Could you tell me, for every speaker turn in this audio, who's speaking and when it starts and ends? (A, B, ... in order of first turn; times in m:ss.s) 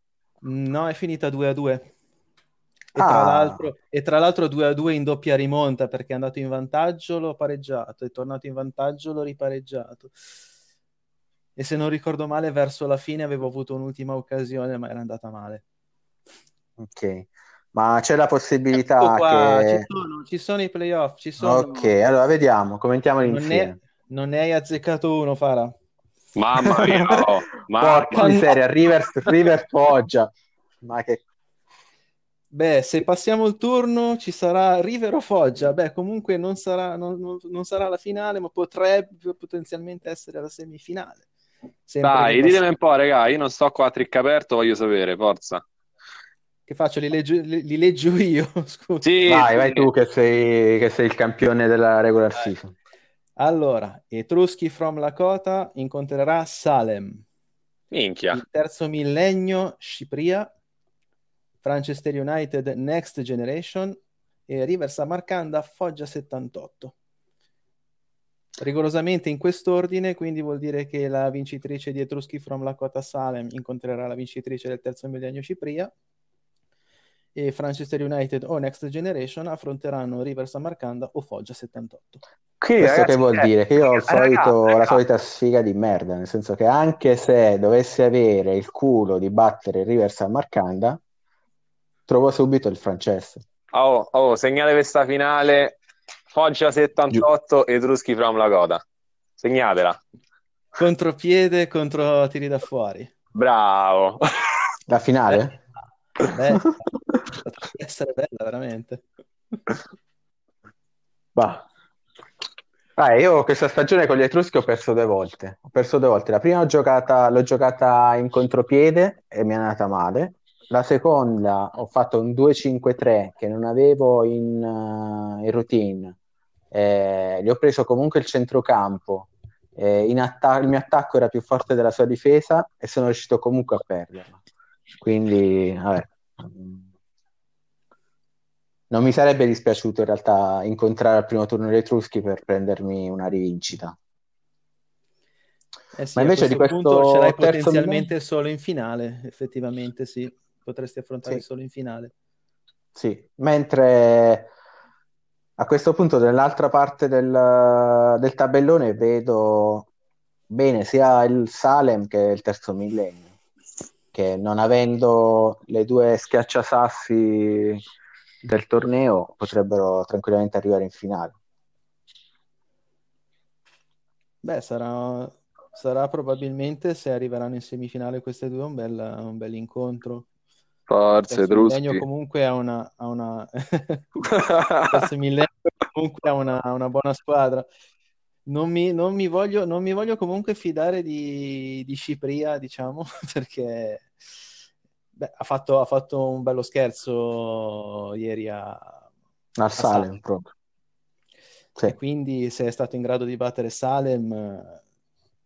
0:00.4-0:01.9 A
0:02.9-0:10.2 A
0:03.0-0:03.6 B
0:11.6-0:15.6 A
0:16.8-0:19.9 B
0:19.0-0:21.9 A
0:21.4-0:23.8 B
0:23.2-0:25.7 A
0:26.4-0:28.3 C
0:26.8-0:31.2 B
0:28.1-0:28.6 A
0:32.5-0:41.2 A
0:41.9-0:42.6 A
0:42.0-0:45.6 C
0:46.7-0:49.1 A
0:49.0-0:49.9 C
0:49.3-0:52.7 B
0:53.4-0:57.2 A
0:57.9-0:58.4 C
0:58.3-1:00.5 A
1:01.6-1:07.0 A
1:08.6-1:15.9 A
1:17.4-1:22.2 A
1:22.6-1:25.0 C
1:22.8-1:31.0 B
1:32.1-1:33.4 B
1:33.7-1:35.8 C
1:36.3-1:38.8 C
1:39.4-1:40.0 C
1:40.8-1:43.1 A
1:43.4-1:44.2 C
1:44.9-1:45.6 B
1:46.3-1:49.0 A
1:51.4-1:51.6 B
1:53.0-2:06.2 B
2:06.7-2:14.4 B
2:15.0-2:16.9 B
2:18.9-2:24.0 B
2:25.9-2:32.1 A
2:26.2-2:28.1 B
2:33.0-2:34.5 B
2:35.6-2:39.9 B
2:40.5-2:43.2 B
2:44.1-2:47.8 B
2:48.4-2:51.4 B
2:54.4-3:00.3 A
3:00.9-3:02.0 C
3:01.3-3:04.3 A
3:04.3-3:05.0 C
3:04.9-3:07.7 A
3:08.5-3:14.1 A
3:15.2-3:19.0 A
3:19.6-3:20.5 B
3:19.8-3:20.1 A
3:21.8-3:24.8 A